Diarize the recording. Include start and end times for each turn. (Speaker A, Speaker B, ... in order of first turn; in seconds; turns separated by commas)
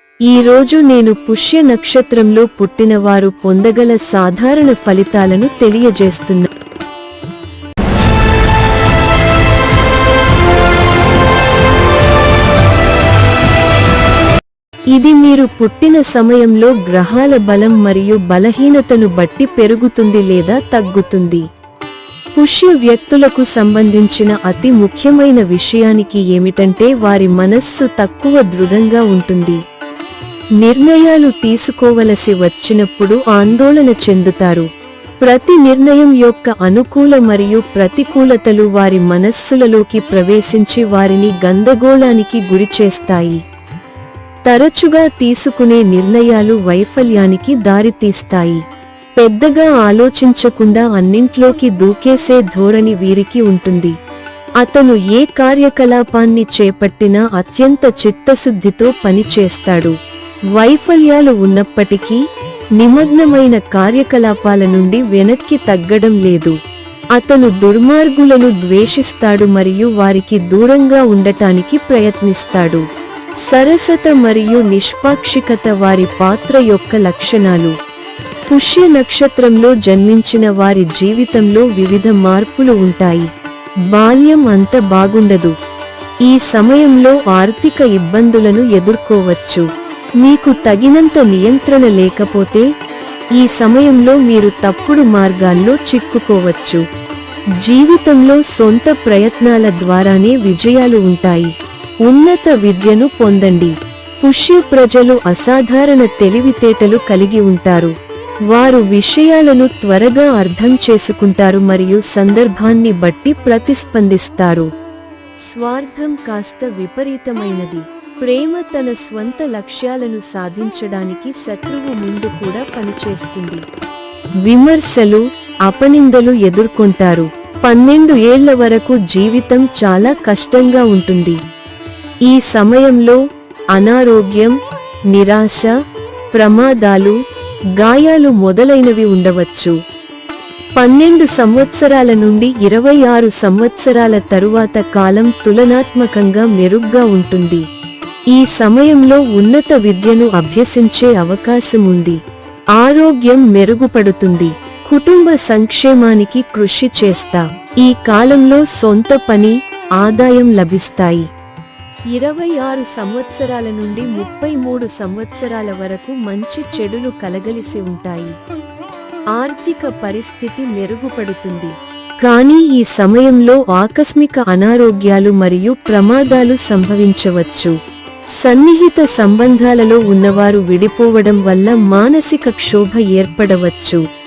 Speaker A: 0.3-6.5, Speaker A: 14.9-21.4, Speaker A: 22.4-29.6, Speaker A: 30.6-34.7, Speaker A: 35.2-43.4, Speaker A: 44.5-48.6, Speaker A: 49.2-53.9, Speaker A: 54.6-60.0, Speaker A: 60.6-62.2, Speaker A: 62.8-66.6, Speaker A: 67.2-72.8, Speaker A: 73.5-77.8, Speaker A: 78.5-83.3, Speaker A: 83.9-85.5, Speaker A: 86.3-89.7, Speaker A: 90.2-92.7, Speaker A: 93.4-96.8, Speaker A: 97.6-101.5, Speaker A: 102.1-107.9, Speaker A: 108.5-114.7, Speaker A: 115.5-123.6, Speaker A: 124.5-131.4, Speaker A: 132.3-133.2, Speaker A: 133.8-134.6, Speaker A: 135.1-135.7, Speaker A: 136.3-137.2, Speaker A: 137.8-139.8, Speaker A: 140.8-147.6, Speaker A: 148.3-152.2, Speaker A: 152.8-161.3, Speaker A: 162.1-168.4, Speaker A: 169.3-171.7, Speaker A: 172.2-177.7, Speaker A: 178.4-184.0